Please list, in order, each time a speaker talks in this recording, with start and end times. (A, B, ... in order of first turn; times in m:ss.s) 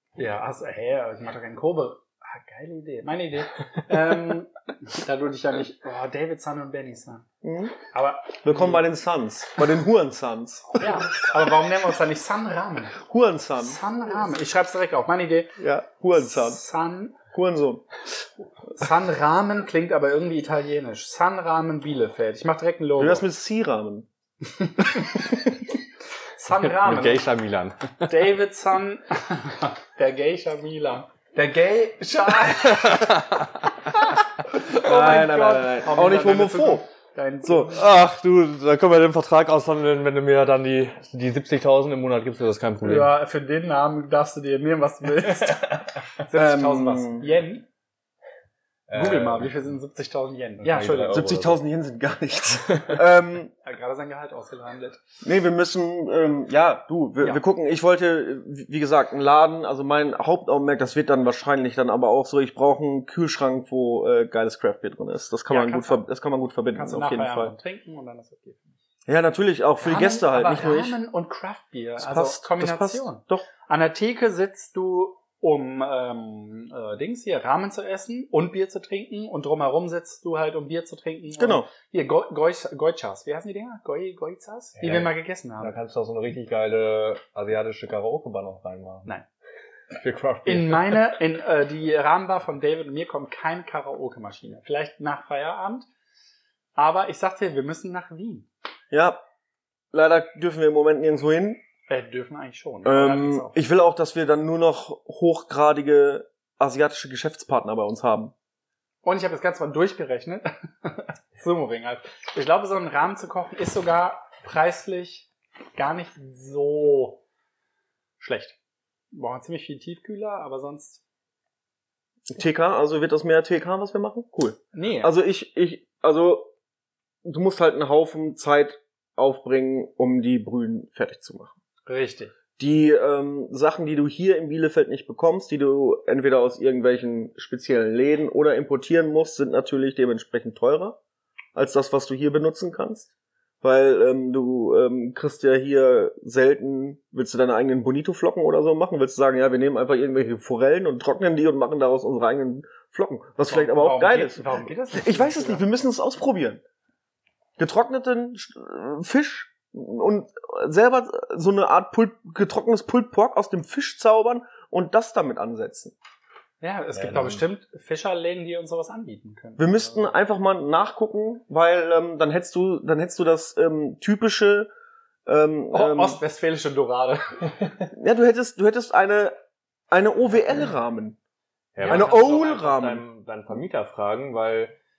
0:00.2-0:07.3 A
0:07.4-0:07.8 B
0:07.9-0:08.9 A
0:08.4-0:11.2 B
0:10.8-0:13.0 A
0:13.0-0:13.8 B
0:13.6-0:15.6 A
0:15.6-0:16.6 B
0:16.1-0:17.2 A
0:17.3-0:17.9 B
0:18.7-0:23.2 A
0:23.0-0:24.1 B
0:24.6-0:25.2 A
0:26.4-0:27.3 A
0:26.6-0:28.3 C
0:28.1-0:33.1 A
0:32.7-0:33.5 C
0:34.1-0:37.8 A
0:34.8-0:36.9 B
0:37.4-0:37.8 B
0:37.7-0:43.1 C
0:42.8-0:47.6 A
0:45.4-0:45.7 C
0:46.4-0:47.3 B
0:48.9-0:49.6 C
0:48.9-0:51.2 A
0:50.6-0:51.6 C
0:51.1-0:53.5 B
0:52.7-0:53.0 C
0:53.6-0:55.0 A
0:55.2-1:07.6 B
1:05.5-1:06.0 A
1:06.7-1:08.8 A
1:09.1-1:11.0 B
1:09.8-1:25.8 A
1:12.0-1:13.5 B
1:21.4-1:21.7 B
1:24.8-1:29.1 C
1:29.9-1:31.0 C
1:30.5-1:35.9 A
1:36.8-1:38.5 A
1:38.9-1:39.2 B
1:39.9-1:41.6 B
1:41.9-1:43.6 A
1:42.8-1:48.3 B
1:49.0-1:57.2 A
1:58.2-1:58.6 A
1:59.1-2:01.0 A
2:02.3-2:06.5 B
2:04.7-2:05.1 A
2:07.2-2:11.5 B
2:11.9-2:12.3 A
2:12.6-2:21.0 B
2:21.6-2:23.1 B
2:23.6-2:36.6 B
2:33.5-2:35.7 A
2:37.6-2:45.9 B
2:46.6-2:49.8 A
2:47.0-2:47.4 C
2:49.6-2:54.7 B
2:55.3-2:56.2 B
2:55.7-2:57.5 A
2:57.9-2:59.4 B
2:59.9-3:01.2 B
3:01.8-3:04.8 C
3:01.8-3:02.2 A
3:01.8-3:03.0 B